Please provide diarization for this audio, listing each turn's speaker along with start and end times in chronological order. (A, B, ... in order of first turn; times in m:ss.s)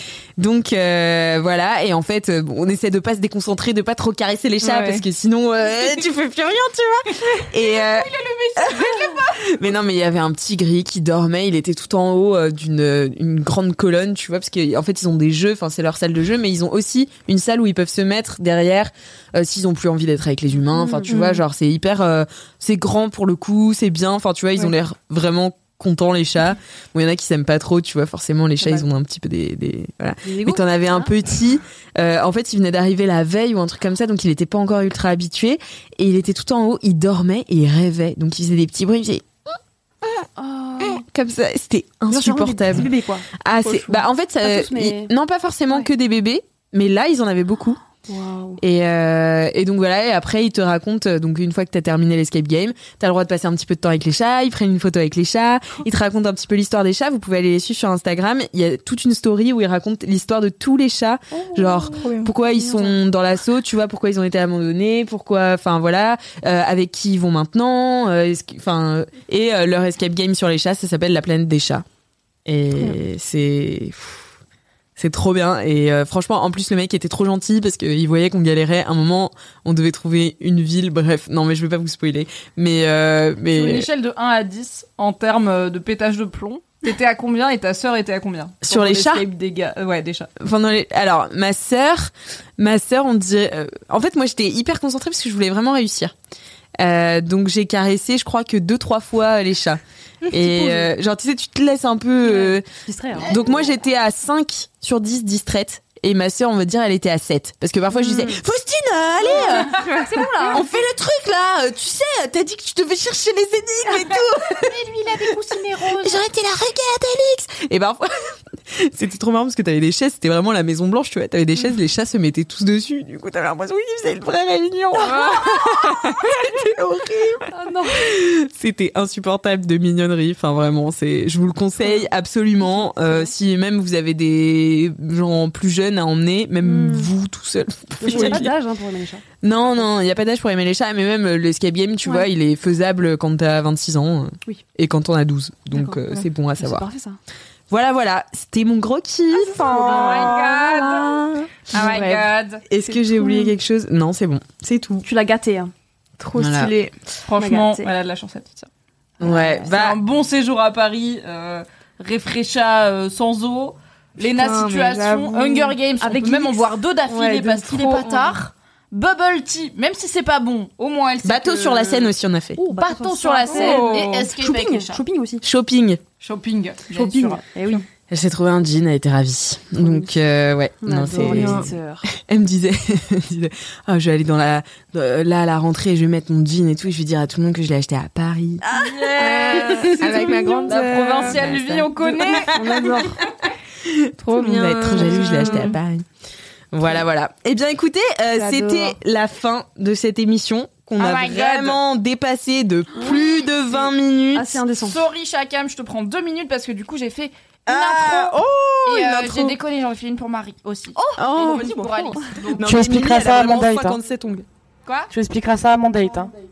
0:00.4-0:39.3 A
0:04.6-0:05.0 B
0:07.8-0:09.5 C
0:20.8-0:21.1 D
0:28.6-0:28.9 D
0:30.2-0:31.1 D
0:40.4-0:41.0 D
0:40.8-0:47.8 A
0:42.1-0:45.1 D
0:48.1-0:48.6 D
0:48.6-1:11.8 A
1:01.3-1:03.0 D
1:01.9-1:02.3 B
1:12.5-1:14.3 A
1:15.0-1:23.9 A
1:23.5-1:30.3 C
1:28.6-1:29.3 A
1:30.4-1:36.1 A
1:36.8-1:42.7 A
1:40.4-1:40.9 D
1:42.3-1:43.4 D
1:43.2-1:43.5 C
1:43.2-1:54.8 A
1:47.9-1:48.4 D
1:49.2-1:50.6 D
1:49.9-1:50.2 B
1:54.5-1:55.6 C
1:55.0-1:56.1 D
1:55.8-2:18.5 A
2:05.1-2:05.8 B
2:07.5-2:08.1 D
2:12.6-2:13.3 D
2:16.6-2:17.1 D
2:18.0-2:19.2 D
2:18.1-2:18.5 B
2:19.4-2:26.9 A
2:25.7-2:27.2 D
2:27.7-2:30.5 A
2:29.6-2:32.3 B
2:29.6-2:30.8 D
2:29.7-2:32.6 C
2:31.7-2:32.1 A
2:32.7-2:35.1 A
2:32.9-2:33.5 B
2:35.0-2:35.7 D
2:36.2-2:37.0 B
2:36.4-2:36.7 A
2:37.3-2:38.7 C
2:37.4-2:37.9 D
2:39.2-2:40.0 A
2:39.6-2:52.1 C
2:44.2-2:45.8 B
2:46.0-2:48.4 D
2:51.2-2:52.6 A
2:52.6-2:55.4 D
2:52.7-2:55.0 C
2:53.5-2:54.3 B
2:55.4-2:56.0 A
2:56.2-2:57.8 C
2:56.9-2:57.8 D
2:58.1-3:08.6 A
2:59.8-3:00.1 D
3:00.8-3:02.1 D
3:01.2-3:01.7 B
3:08.7-3:12.8 C
3:08.8-3:09.1 D
3:09.2-3:11.5 B
3:09.2-3:13.2 A
3:12.4-3:13.2 D
3:13.8-3:16.0 A
3:14.2-3:15.8 B
3:16.7-3:24.6 A
3:18.6-3:18.8 B
3:21.0-3:21.8 C
3:23.0-3:23.5 C
3:24.3-3:25.0 D
3:24.8-3:32.8 C
3:27.7-3:29.6 A
3:31.0-3:32.0 D
3:31.2-3:34.5 A
3:32.6-3:34.0 E
3:35.1-3:36.3 E